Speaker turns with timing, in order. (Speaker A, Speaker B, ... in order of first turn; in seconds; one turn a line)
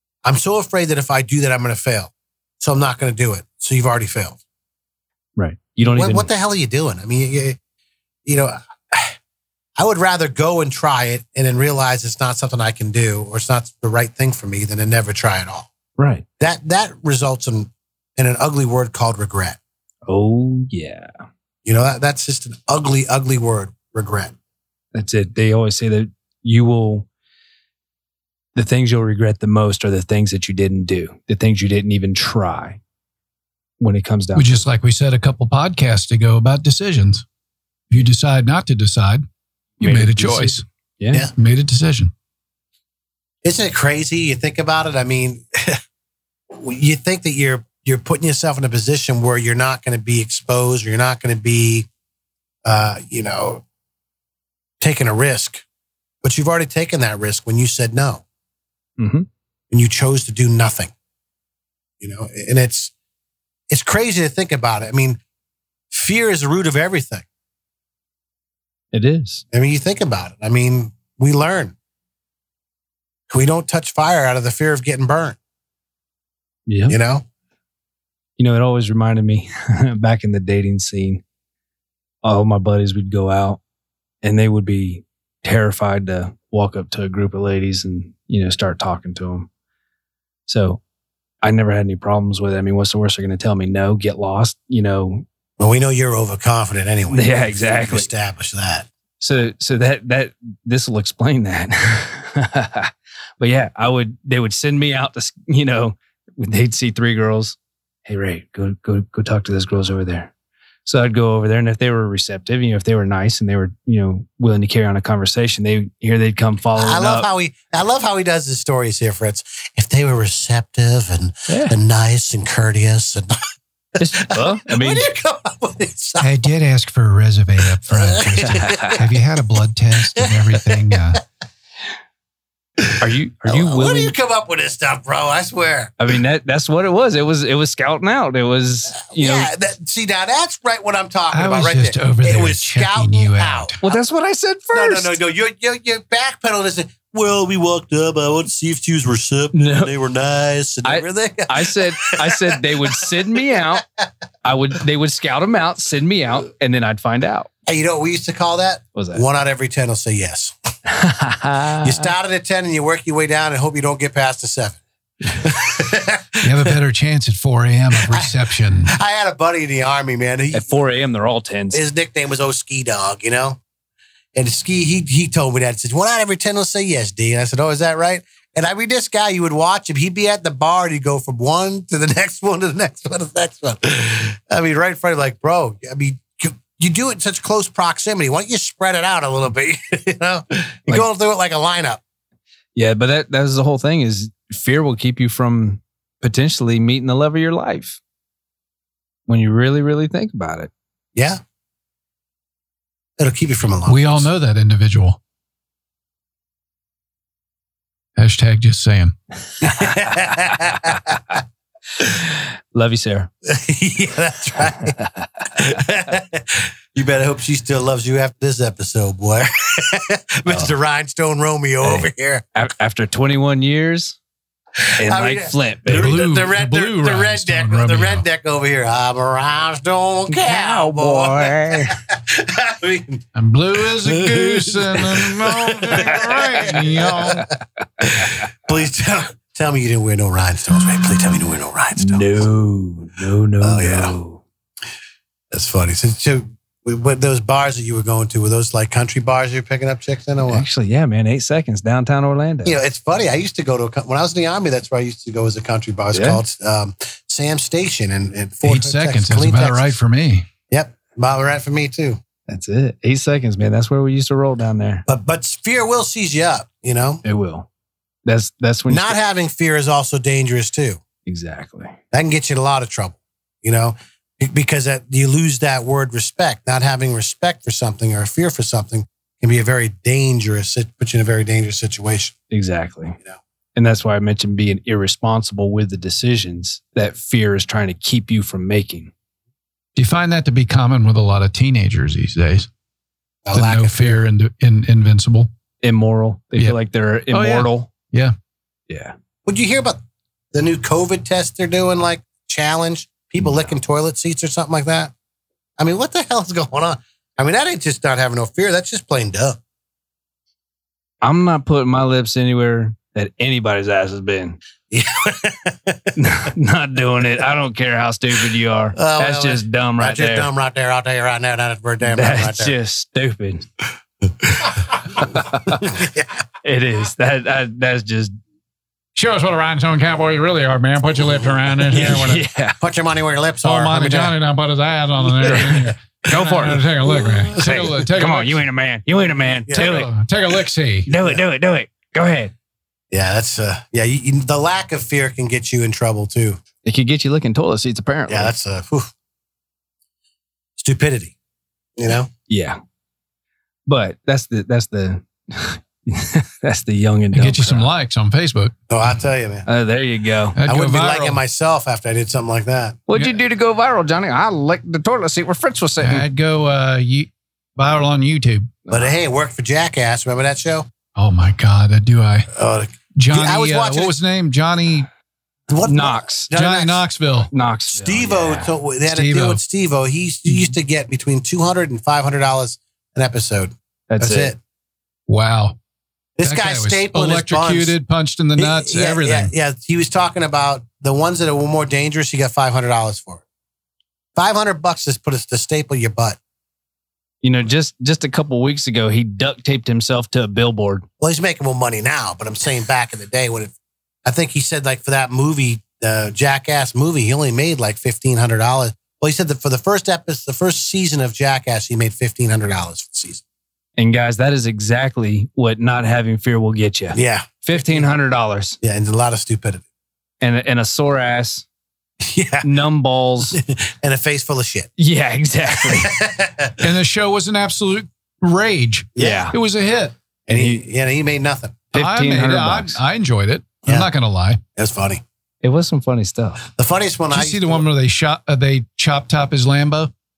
Speaker A: 0.2-4.4
Speaker B: 5.4-6.3
Speaker A: 5.8-7.6
Speaker A: 8.2-9.2
Speaker A: 9.8-15.7
Speaker B: 16.0-16.2
Speaker A: 16.4-19.6
Speaker B: 20.1-21.1
Speaker A: 21.6-24.3
Speaker B: 24.9-27.1
Speaker B: 28.5-32.8
Speaker B: 33.8-34.6
Speaker C: 34.3-37.2
Speaker C: 37.9-39.2
Speaker C: 39.8-40.6
Speaker B: 39.8-41.3
Speaker C: 41.3-42.1
Speaker A: 43.4-45.8
Speaker A: 46.5-51.9
Speaker A: 52.6-53.6
Speaker A: 54.8-55.6
Speaker A: 56.2-58.2
Speaker B: 59.0-59.2
Speaker A: 59.7-60.9
Speaker A: 62.0-62.9
Speaker A: 63.7-65.2
Speaker A: 65.9-67.2
Speaker B: 68.9-69.4
Speaker A: 69.5-71.7
Speaker A: 73.3-75.4
Speaker B: 76.7-77.0
Speaker A: 76.9-77.2
Speaker B: 78.4-81.2
Speaker B: 82.2-83.6
Speaker B: 84.2-89.5
Speaker B: 90.5-90.8
Speaker B: 91.4-95.2
Speaker A: 95.6-98.9
Speaker B: 97.1-98.1
Speaker B: 99.2-110.3
Speaker B: 110.8-117.3
Speaker A: 116.8-123.4
Speaker B: 121.5-121.7
Speaker B: 124.0-125.0
Speaker A: 124.2-126.4
Speaker C: 126.2-131.2
Speaker A: 127.9-129.0
Speaker B: 128.4-129.0
Speaker A: 130.1-131.2
Speaker A: 132.8-135.9
Speaker B: 133.0-134.1
Speaker B: 136.0-139.5
Speaker A: 139.0-144.0
Speaker C: 141.3-143.8
Speaker B: 143.8-145.2
Speaker A: 144.7-153.1
Speaker B: 149.5-149.9
Speaker B: 150.8-153.8
Speaker B: 154.4-157.5
Speaker A: 157.7-160.5
Speaker B: 158.9-159.2
Speaker B: 160.9-162.1
Speaker A: 161.8-166.7
Speaker C: 166.4-168.9
Speaker A: 168.1-170.8
Speaker B: 170.5-171.8
Speaker A: 171.7-173.6
Speaker A: 174.3-192.0
Speaker B: 192.7-198.0
Speaker B: 199.3-200.7
Speaker A: 203.2-204.3
Speaker C: 203.9-205.2
Speaker C: 208.2-209.1
Speaker A: 209.6-211.2
Speaker B: 212.7-213.3
Speaker A: 213.4-215.0
Speaker B: 214.9-215.3
Speaker A: 215.5-222.4
Speaker B: 221.8-224.2
Speaker A: 224.8-233.2
Speaker B: 225.0-226.2
Speaker C: 225.8-228.2
Speaker B: 230.3-231.9
Speaker C: 233.3-237.4
Speaker A: 233.8-237.5
Speaker A: 238.0-242.4
Speaker B: 242.0-244.4
Speaker A: 243.6-244.1
Speaker A: 245.5-250.6
Speaker B: 250.4-252.8
Speaker A: 252.6-259.9
Speaker B: 256.1-256.4
Speaker C: 258.6-260.5
Speaker A: 260.7-262.2
Speaker B: 262.5-265.0
Speaker A: 265.1-267.2
Speaker B: 267.2-267.7
Speaker B: 268.2-269.2
Speaker A: 268.9-271.0
Speaker B: 271.2-271.9
Speaker A: 272.1-282.3
Speaker B: 282.5-283.2
Speaker B: 283.8-289.1
Speaker C: 289.9-292.7
Speaker A: 293.4-294.2
Speaker C: 293.5-295.5
Speaker B: 295.8-297.9
Speaker C: 297.3-298.3
Speaker B: 298.9-299.1
Speaker A: 299.4-300.0
Speaker A: 300.5-305.1
Speaker A: 305.8-309.6
Speaker B: 311.2-314.6
Speaker A: 314.9-316.1
Speaker B: 316.2-320.5
Speaker A: 318.9-322.7
Speaker B: 322.0-323.6
Speaker A: 324.4-326.3
Speaker B: 325.2-325.9
Speaker B: 326.6-328.3
Speaker C: 329.1-332.4
Speaker A: 331.9-332.2
Speaker B: 331.9-332.8
Speaker A: 332.8-334.3
Speaker C: 333.6-338.6
Speaker A: 335.5-335.9
Speaker B: 336.3-340.1
Speaker A: 339.7-340.0
Speaker C: 339.7-341.1
Speaker B: 341.1-342.5
Speaker A: 343.1-346.6
Speaker B: 346.8-348.5
Speaker A: 348.3-349.1
Speaker A: 350.8-351.3
Speaker A: 352.0-352.3
Speaker B: 352.5-352.8
Speaker B: 353.9-357.9
Speaker C: 357.3-358.7
Speaker A: 358.9-359.7
Speaker B: 359.7-360.6
Speaker C: 360.5-361.4
Speaker A: 360.6-363.0
Speaker B: 363.1-366.2
Speaker C: 366.0-368.7
Speaker B: 368.9-369.2
Speaker A: 368.9-370.9
Speaker C: 371.1-372.5
Speaker A: 372.5-374.1
Speaker C: 373.1-375.1
Speaker A: 375.7-377.0
Speaker B: 375.8-376.5
Speaker C: 376.5-377.5
Speaker B: 377.5-378.7
Speaker A: 377.9-384.6
Speaker C: 379.1-379.6
Speaker B: 384.1-384.5
Speaker C: 385.3-385.8
Speaker A: 386.4-387.9
Speaker C: 386.4-389.5
Speaker A: 388.6-393.4
Speaker A: 394.4-396.4
Speaker B: 397.4-401.1
Speaker A: 401.2-403.7
Speaker A: 404.2-413.4
Speaker B: 414.0-418.8
Speaker A: 417.1-418.1
Speaker A: 418.8-419.8
Speaker B: 420.4-421.6
Speaker A: 422.2-422.7
Speaker B: 422.6-423.6
Speaker A: 423.5-424.9
Speaker B: 425.0-426.1
Speaker A: 425.8-426.8
Speaker C: 426.8-430.1
Speaker A: 429.1-429.5
Speaker B: 429.2-429.5
Speaker A: 430.5-431.8
Speaker B: 430.5-430.8
Speaker B: 431.9-433.0
Speaker C: 431.9-434.6
Speaker A: 433.8-434.1
Speaker A: 434.8-435.2
Speaker B: 435.6-436.6
Speaker A: 436.8-437.8
Speaker C: 437.3-440.1